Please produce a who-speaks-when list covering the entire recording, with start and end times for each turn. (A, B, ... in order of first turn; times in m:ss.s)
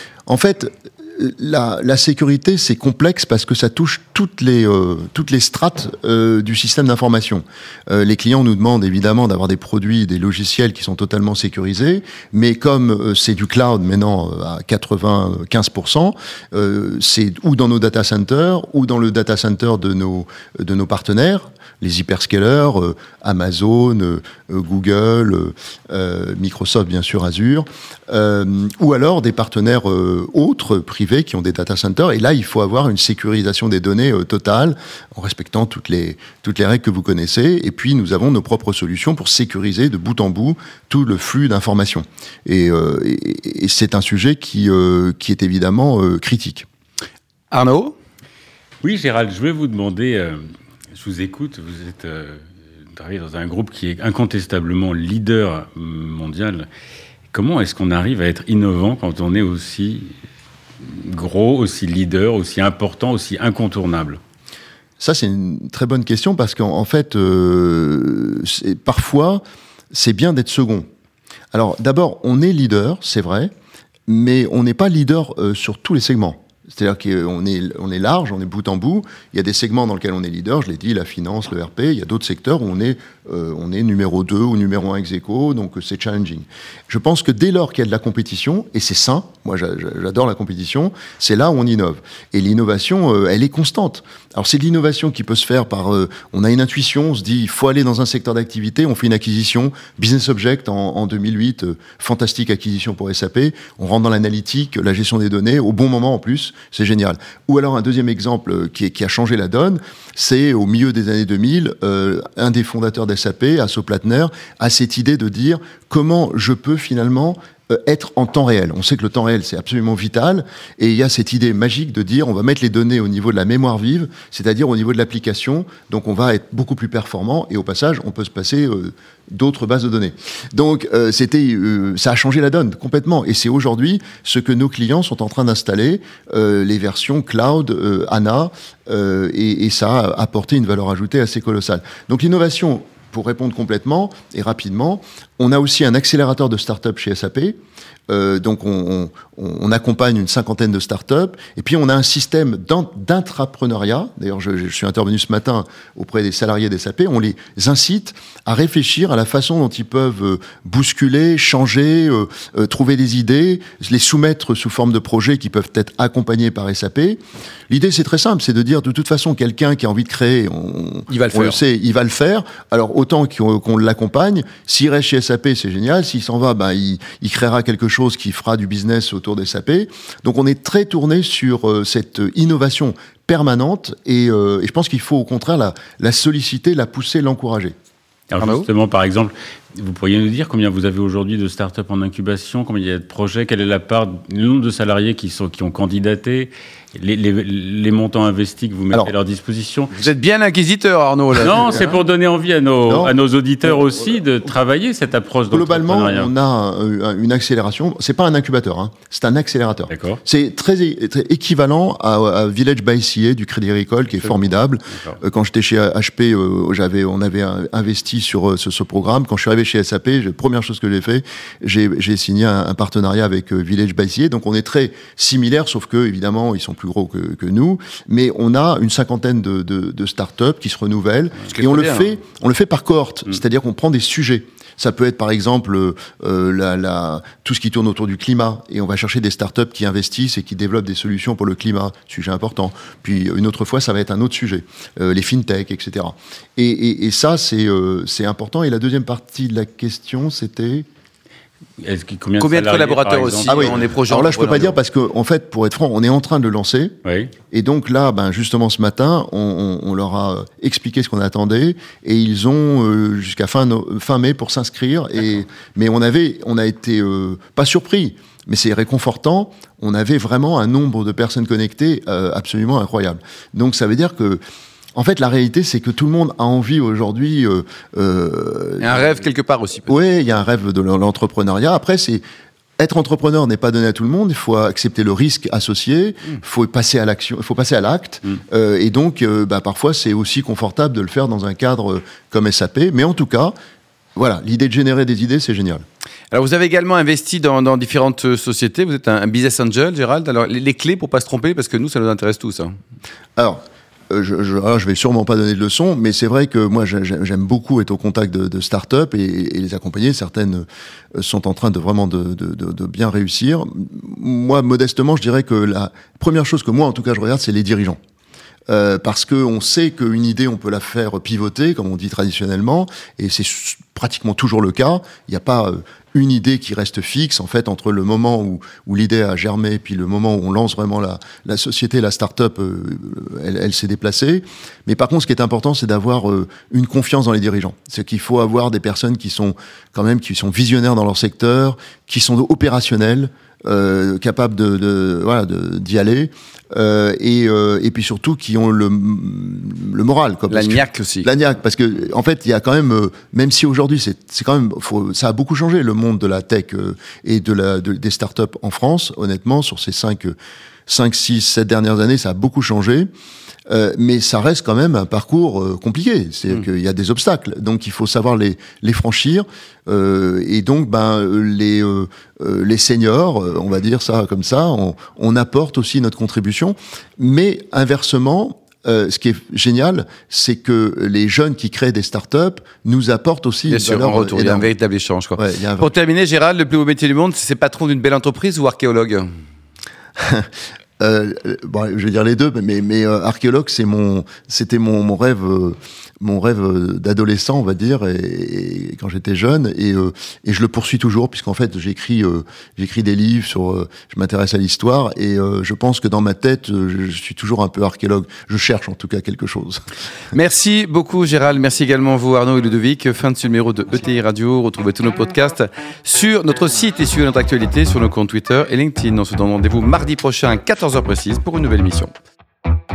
0:00.3-0:46.6 A
0:47.5-0:47.9 B
0:48.8-0:50.4 C
0:50.9-0:52.4 C
0:52.9-0:56.7 C
0:57.3-1:00.1 C
1:00.8-1:04.2 C
1:05.0-1:10.9 A
1:11.5-1:13.5 A
1:14.1-2:27.6 A
2:28.1-3:07.7 A
2:51.1-2:51.6 B
3:08.3-3:20.0 C
3:08.4-3:08.6 B
3:19.9-3:21.9 B
3:21.4-3:26.3 C
3:22.8-3:23.8 A
3:25.5-4:10.8 A
3:29.9-3:30.2 C
3:51.5-3:52.1 B
4:11.8-4:13.8 C
4:12.4-4:14.8 B
4:13.5-4:16.9 A
4:17.0-4:17.3 C
4:17.5-4:34.4 A
4:34.9-4:39.2 A
4:38.8-4:40.0 B
4:39.9-4:42.2 A
4:42.8-4:53.5 A
4:54.2-4:55.8 A
4:56.3-5:02.7 B
5:03.4-5:18.0 A
5:18.7-6:00.4 A
5:50.5-5:51.3 B
6:00.9-6:03.1 A
6:03.7-6:24.7 A
6:23.7-6:29.3 B
6:25.4-6:25.9 A
6:30.2-6:30.5 A
6:31.0-6:49.8 A
6:50.3-7:02.1 B